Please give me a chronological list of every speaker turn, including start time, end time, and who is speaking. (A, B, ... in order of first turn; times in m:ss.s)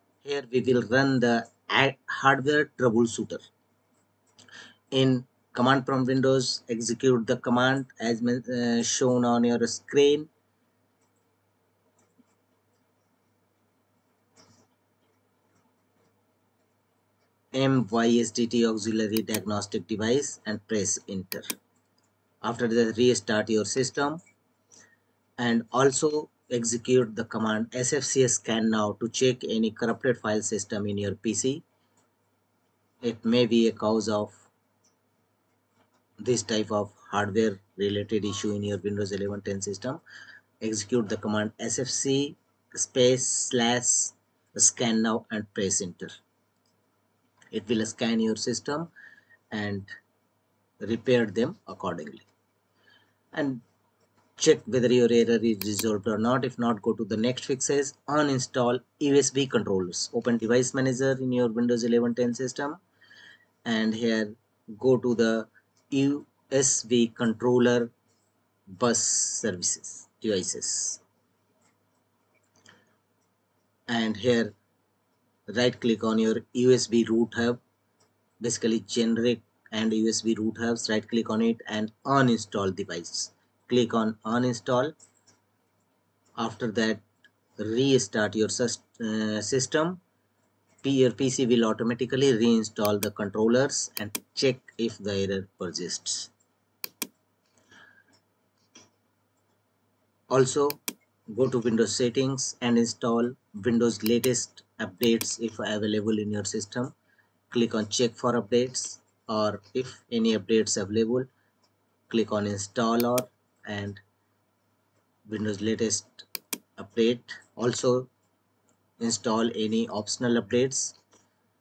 0:00.2-0:03.4 A
0:04.9-0:10.3 A
0:17.5-0:21.5 A
0:22.4-0:24.2 A
0:25.4-0:31.6 A
0:33.0-0:34.5 A
0:36.2-0:40.0 A
0:40.6-0:46.1 A
0:47.5-0:48.9 A
0:49.5-0:49.9 A
0:50.8-0:52.3 A
0:53.3-0:53.6 A
0:54.4-1:02.8 A
1:03.6-1:07.9 A
1:08.7-1:11.0 A
1:13.9-1:14.6 A
1:15.5-1:17.6 A
1:18.4-1:24.9 A
1:26.4-1:27.0 A
1:27.6-1:30.0 A
1:30.8-1:36.3 A
1:40.3-1:40.8 A
1:41.3-1:46.9 A
1:47.5-1:51.3 A
1:52.1-1:54.0 A
1:55.3-1:56.3 A
1:56.8-1:58.1 A
1:59.0-2:01.0 A